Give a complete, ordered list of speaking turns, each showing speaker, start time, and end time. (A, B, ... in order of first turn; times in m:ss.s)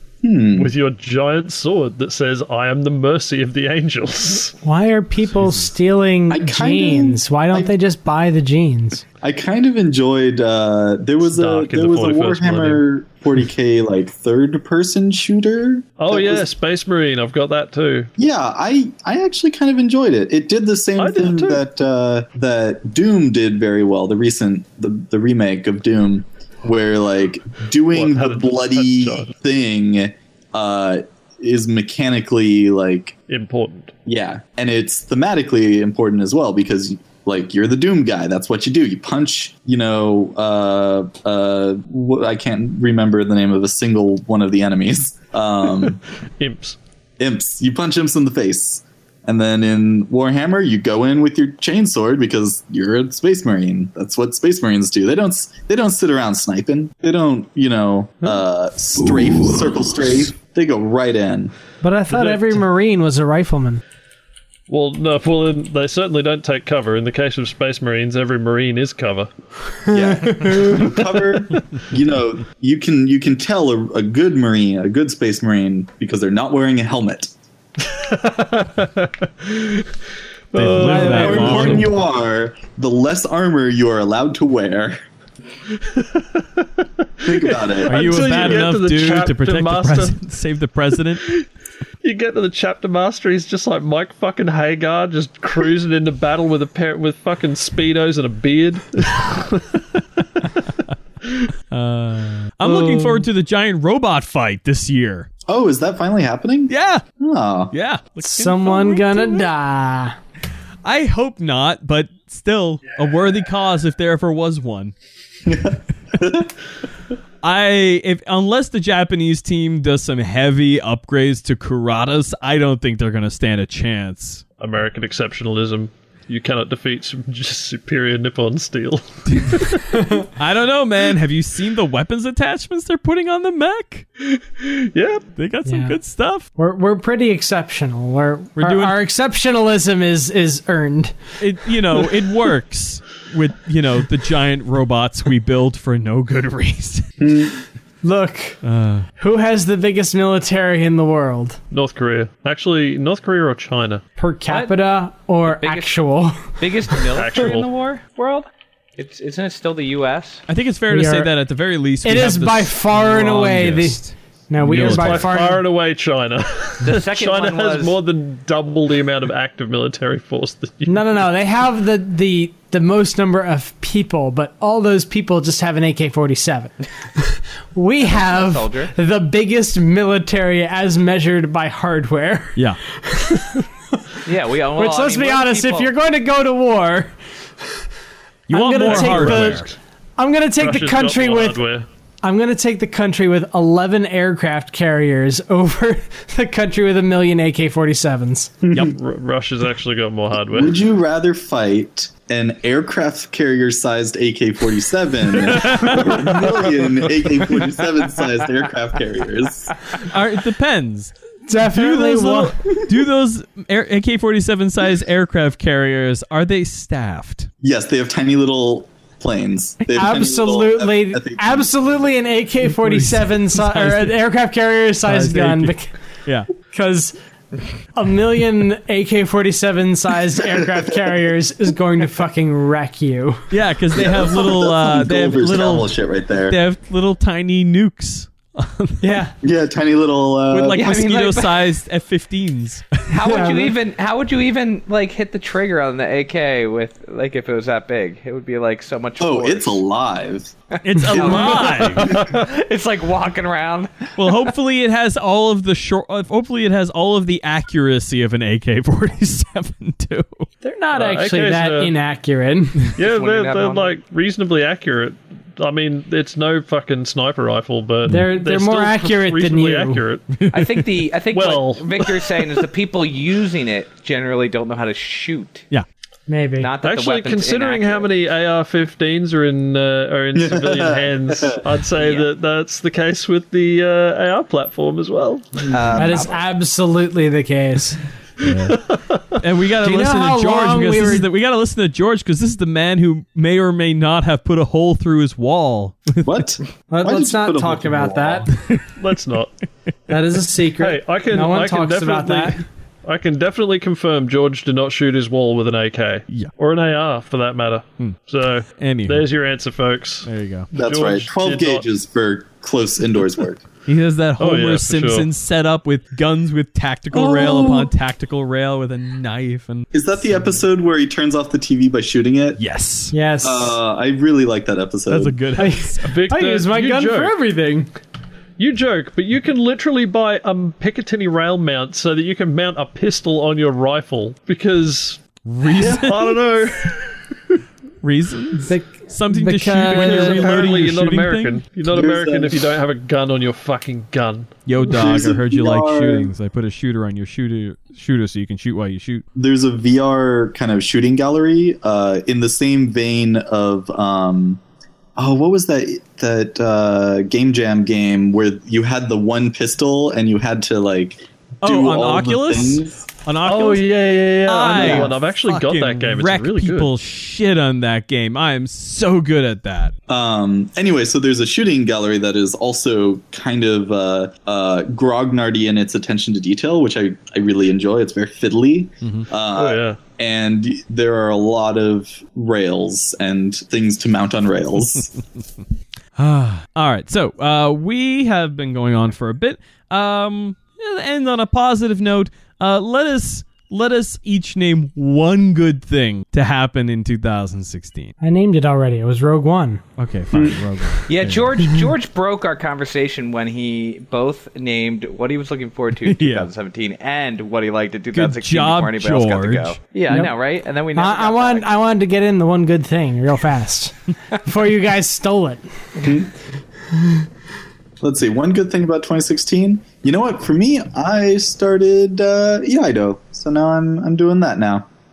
0:00.2-0:00.7 A
0:00.5-0:04.6 B
0:04.6-0:09.0 C
0:05.3-0:05.7 D
0:06.3-0:07.7 A
0:09.2-0:16.5 A
0:11.2-0:12.8 B
0:16.0-0:18.1 B
0:18.2-0:33.1 A
0:21.0-0:21.6 B
0:27.9-0:29.3 B
0:33.3-0:33.9 B
0:34.0-0:46.0 A
0:46.4-0:46.8 B
0:47.2-1:01.5 A
1:01.8-1:03.8 C
1:02.1-1:02.6 B
1:04.7-1:09.3 B
1:09.9-1:10.9 C
1:09.9-1:17.3 A
1:17.8-1:19.9 B
1:20.5-1:21.9 B
1:20.5-1:21.9 D
1:20.7-1:25.0 A
1:25.7-1:30.2 B
1:27.2-1:28.6 A
1:27.8-1:31.3 D
1:32.0-1:40.7 B
1:41.7-1:45.3 D
1:42.6-1:43.2 B
1:45.5-1:47.7 A
1:46.7-1:47.0 D
1:47.7-1:49.5 D
1:48.2-1:50.2 C
1:50.8-1:54.9 D
1:55.5-1:56.5 A
1:57.4-2:04.4 D
2:04.6-2:10.2 B
2:09.3-2:14.0 D
2:14.2-2:15.2 B
2:15.4-2:16.5 D
2:15.6-2:16.0 C
2:16.5-2:21.2 C
2:18.6-2:19.0 D
2:21.4-2:27.1 D
2:27.2-2:27.6 A
2:28.0-2:28.6 C
2:28.6-2:29.1 D
2:29.2-2:31.6 C
2:31.7-2:34.0 B
2:34.2-2:36.6 C
2:34.5-2:34.7 E
2:35.5-2:36.0 E
2:36.5-2:40.4 E
2:37.1-2:37.7 B
2:40.5-2:45.3 D
2:40.9-2:41.3 C
2:42.0-2:45.6 C
2:44.7-2:51.1 B
2:46.8-2:48.0 E
2:50.8-3:03.6 C
2:58.0-2:58.9 E
3:04.2-3:05.9 E
3:04.7-3:07.1 C
3:08.5-3:09.7 D
3:08.5-3:11.6 C
3:08.8-3:09.7 B
3:10.6-3:11.8 B
3:12.2-3:18.6 C
3:18.6-3:19.0 A
3:18.9-3:20.8 B
3:20.5-3:29.7 A
3:25.5-3:26.3 D
3:30.0-3:37.5 D
3:31.5-3:32.6 C
3:37.6-3:41.9 A
3:39.9-3:45.9 C
3:42.6-3:44.2 D
3:45.0-3:46.5 D
3:46.7-3:47.1 C
3:47.9-3:53.4 C
3:53.5-3:55.9 D
3:53.9-3:56.6 A
3:56.5-3:59.2 D
3:59.0-3:59.3 C
3:59.4-4:00.9 A
4:00.5-4:03.0 D
4:00.7-4:01.6 E
4:03.1-4:09.8 E
4:03.2-4:03.7 C
4:09.2-4:10.5 A
4:10.8-4:12.1 D
4:10.9-4:14.5 E
4:11.1-4:12.2 A
4:11.2-4:12.4 B
4:14.2-4:20.5 D
4:20.6-4:22.9 C
4:20.9-4:21.9 B
4:23.0-4:30.4 B
4:23.0-4:23.9 E
4:28.1-4:30.0 C
4:30.3-4:31.0 D
4:30.5-4:35.6 E
4:31.3-4:32.5 B
4:36.3-4:36.7 C
4:36.6-4:38.1 E
4:36.8-4:45.8 B
4:40.3-4:41.6 A
4:42.0-4:42.3 E
4:45.7-4:46.4 E
4:45.7-4:46.0 A
4:45.9-4:48.0 C
4:48.4-4:48.8 D
4:48.4-4:49.2 B
4:49.3-4:56.5 D
4:49.8-4:51.3 C
4:56.2-4:58.5 A
4:56.9-4:58.5 C
4:59.0-4:59.5 B
5:00.1-5:02.6 C
5:00.8-5:11.9 B
5:08.8-5:09.3 D
5:10.2-5:10.7 D
5:10.7-5:13.6 A
5:13.8-5:19.9 D
5:14.4-5:15.3 B
5:17.1-5:17.9 C
5:19.9-5:22.6 A
5:22.6-5:23.1 D
5:23.1-5:23.8 C
5:23.4-5:25.4 A
5:25.1-5:26.2 D
5:25.6-5:27.9 C
5:26.0-5:27.3 B
5:28.6-5:35.2 B
5:35.4-5:36.4 D
5:35.8-5:37.2 B
5:35.8-5:36.0 A
5:38.0-5:41.6 D
5:38.6-5:40.8 C
5:39.9-5:44.8 B
5:41.9-5:42.6 A
5:44.6-5:49.2 D
5:44.8-5:46.3 A
5:49.3-5:54.6 A
5:55.2-6:03.0 A
6:01.6-6:03.8 D
6:03.4-6:06.9 B
6:04.4-6:09.9 D
6:04.7-6:05.1 A
6:10.1-6:25.1 A
6:19.5-6:20.0 B
6:26.2-6:38.1 D
6:38.2-6:39.8 C
6:40.0-6:41.5 D
6:40.3-6:40.6 A
6:41.1-6:51.7 E
6:46.0-6:46.5 D
6:48.1-6:49.8 D
6:50.9-6:55.6 C
6:56.0-6:56.3 A
6:56.9-6:57.2 C
6:58.0-7:04.9 A